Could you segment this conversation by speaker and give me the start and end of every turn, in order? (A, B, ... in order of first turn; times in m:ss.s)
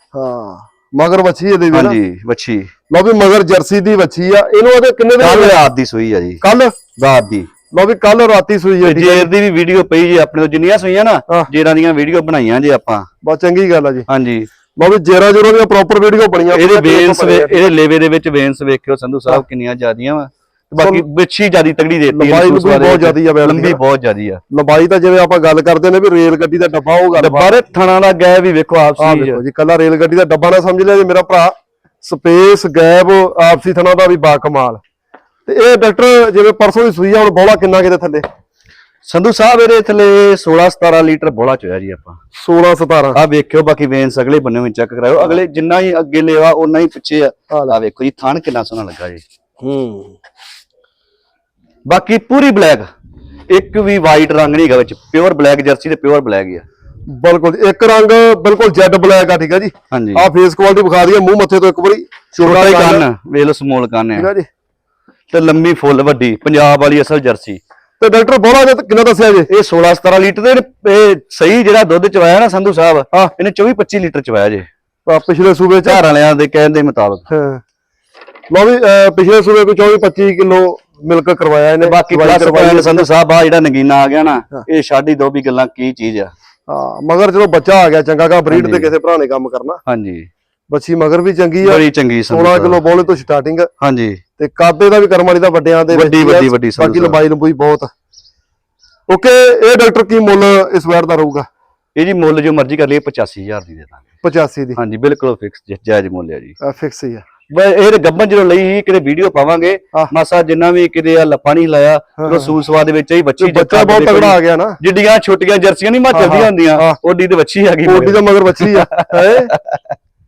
0:00.1-0:02.0 A
0:01.7-0:02.7 B
0:02.9-0:05.6 A
0:05.2-0:06.4 B
0:06.4-0:06.8 A
0:07.0-0:07.5 B
0:07.7-0:09.3 A
0:08.8-0:13.1 B
0:13.2-0:14.1 A
0:14.1-0:14.5 B
0:14.8-0:17.7 A
0:16.5-0:24.4 B
0:20.8-0:21.0 A
0:22.1-0:23.8 A
0:24.5-0:27.5 A
0:27.2-0:29.4 B
0:29.0-0:34.8 A
0:35.4-0:38.2 A
0:39.0-0:42.2 B
0:42.4-0:43.2 A
0:43.1-0:49.2 B
0:47.5-0:47.8 A
0:49.6-0:50.1 A
0:51.9-0:52.9 B
0:53.5-0:56.6 B
0:57.1-1:03.0 A
0:59.9-1:00.2 B
1:02.4-1:04.3 B
1:04.2-1:04.5 A
1:05.3-1:07.6 B
1:08.0-1:09.5 A
1:09.5-1:14.6 B
1:15.1-1:16.0 A
1:15.8-1:17.3 B
1:17.3-1:17.6 A
1:18.5-1:23.0 A
1:21.8-1:26.3 B
1:26.7-1:29.8 A
1:28.5-1:28.9 B
1:29.9-1:30.3 B
1:30.7-1:33.7 A
1:31.6-1:32.8 B
1:33.8-1:34.2 B
1:34.4-1:37.9 A
1:35.9-1:37.2 B
1:39.1-1:41.4 A
1:42.0-1:44.0 B
1:44.2-1:44.8 A
1:44.8-1:46.5 B
1:46.6-1:47.2 A
1:47.5-2:00.0 B
1:52.2-1:52.5 A
1:53.4-1:54.8 A
1:56.1-1:57.0 A
1:57.8-1:59.5 A